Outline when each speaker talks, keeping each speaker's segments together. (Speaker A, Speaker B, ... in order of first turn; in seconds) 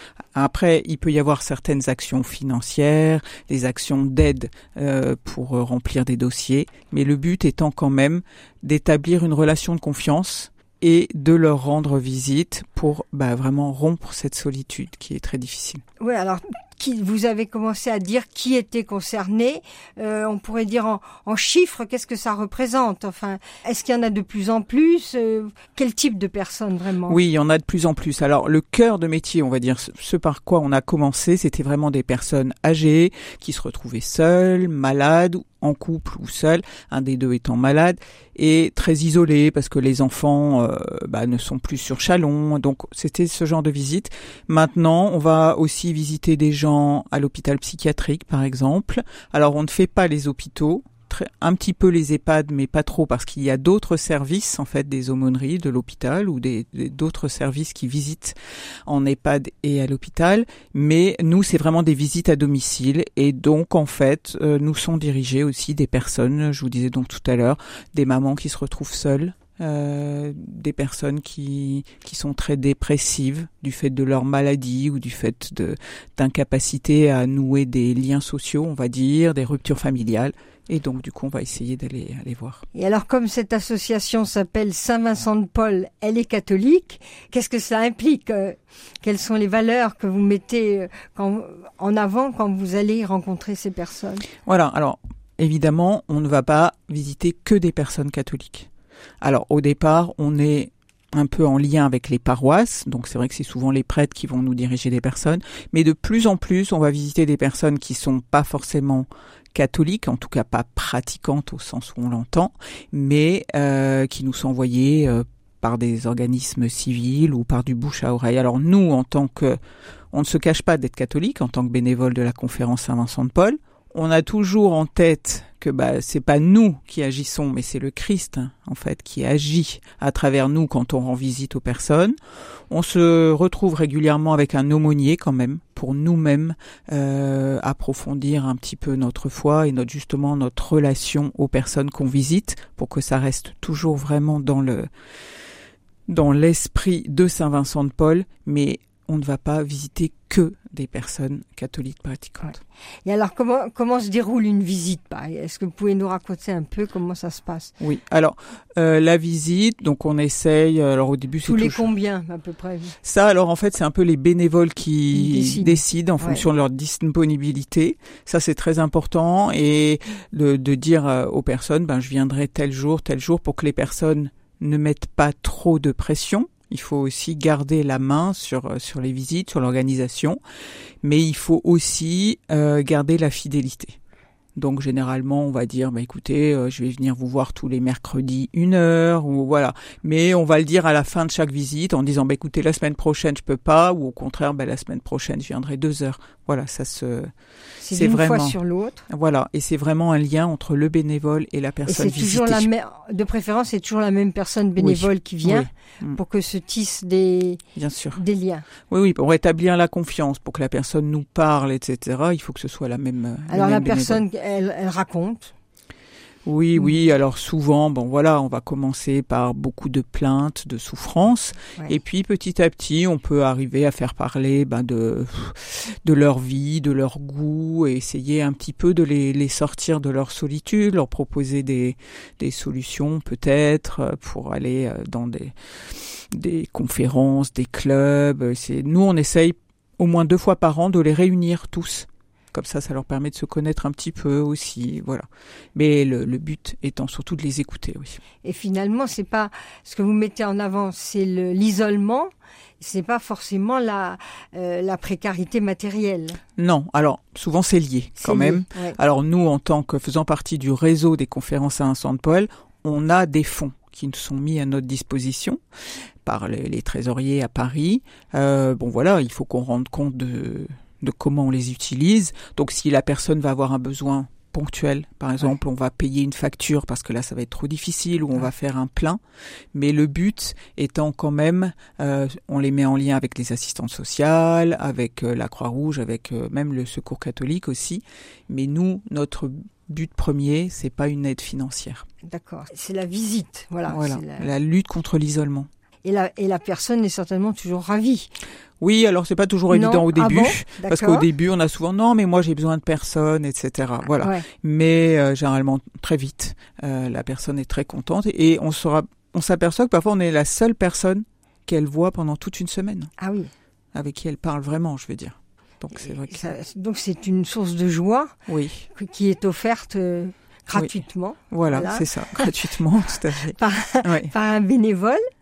Speaker A: 0.3-15.8, 27.1-82.6, 94.4-98.7, 99.2-119.6, 120.1-132.2, 132.7-144.9, 146.1-152.6, 157.8-161.9, 163.0-180.4, 181.0-184.0, 184.6-197.3, 197.9-198.6, 199.1-202.7, 204.8-206.2, 207.8-208.2, 208.9-214.2, 216.4-235.5, 236.3-248.2, 256.6-265.6, 266.2-279.2, 279.7-292.1, 293.9-295.7, 298.8-313.1, 313.9-316.6, 318.5-318.9, 321.5-324.3
Speaker B: 16.0-27.2, 82.7-94.3, 153.1-157.7, 161.4-163.0, 165.1-166.4, 197.8-199.1, 201.9-207.6, 208.2-208.7, 213.5-215.5, 248.4-256.4, 258.2-259.0, 292.2-294.5, 296.0-298.3, 299.7-301.3, 304.2-304.5, 313.2-313.5, 316.0-318.4, 318.9-322.5, 323.6-325.2